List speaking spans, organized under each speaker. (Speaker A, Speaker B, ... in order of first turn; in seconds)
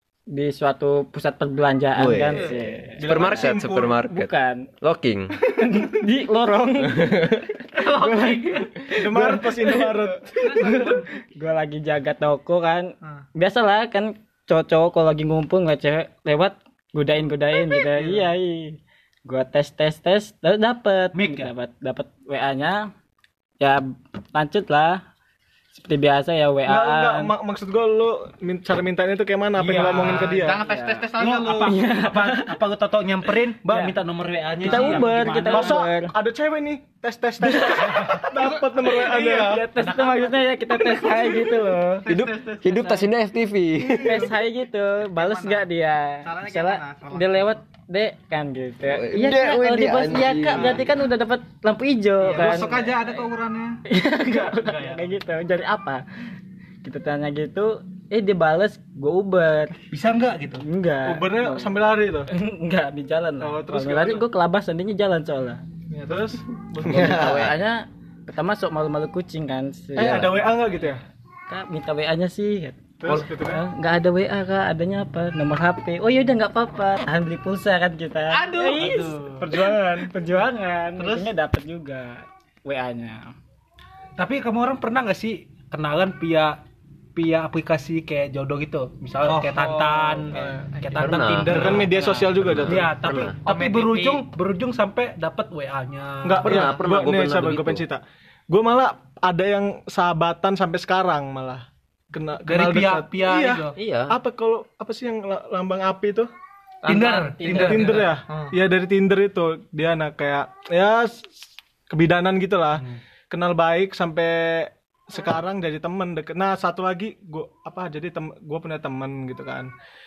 Speaker A: 0.3-3.5, 4.0-4.7, 5.4-22.9, 23.6-25.0, 25.7-27.3, 30.6-32.6, 33.6-34.0, 34.6-36.1, 37.5-38.3, 39.0-42.1, 44.0-52.9, 53.9-56.0, 56.8-59.8, 60.6-61.7, 62.3-65.6, 66.8-70.5, 71.5-83.3, 107.1-108.0
Speaker B: 1.9-5.3, 6.9-7.4, 42.1-44.3, 48.8-50.9, 66.8-67.5, 70.0-70.3, 90.9-93.4, 96.4-97.8, 103.8-104.2
Speaker C: 3.0-4.0, 8.9-10.7, 18.0-18.2, 26.7-30.6, 35.5-39.6, 54.3-55.1, 61.0-62.3, 63.4-64.2, 65.9-67.1, 70.0-71.0, 73.0-73.6, 79.4-80.1, 91.5-93.0, 96.2-106.3, 107.5-119.7
Speaker D: 7.7-8.8, 29.9-31.8, 38.3-39.8, 42.0-43.0, 45.0-45.7, 46.2-47.6, 52.2-53.8, 89.2-91.1, 93.4-94.2, 106.9-108.5
Speaker E: 10.4-11.0, 21.1-21.5, 29.6-30.5, 31.1-35.8, 39.9-40.3, 52.4-52.9, 59.9-60.6, 78.3-79.5, 81.0-81.3, 84.2-86.6, 87.1-96.7, 102.5-103.8, 106.8-108.2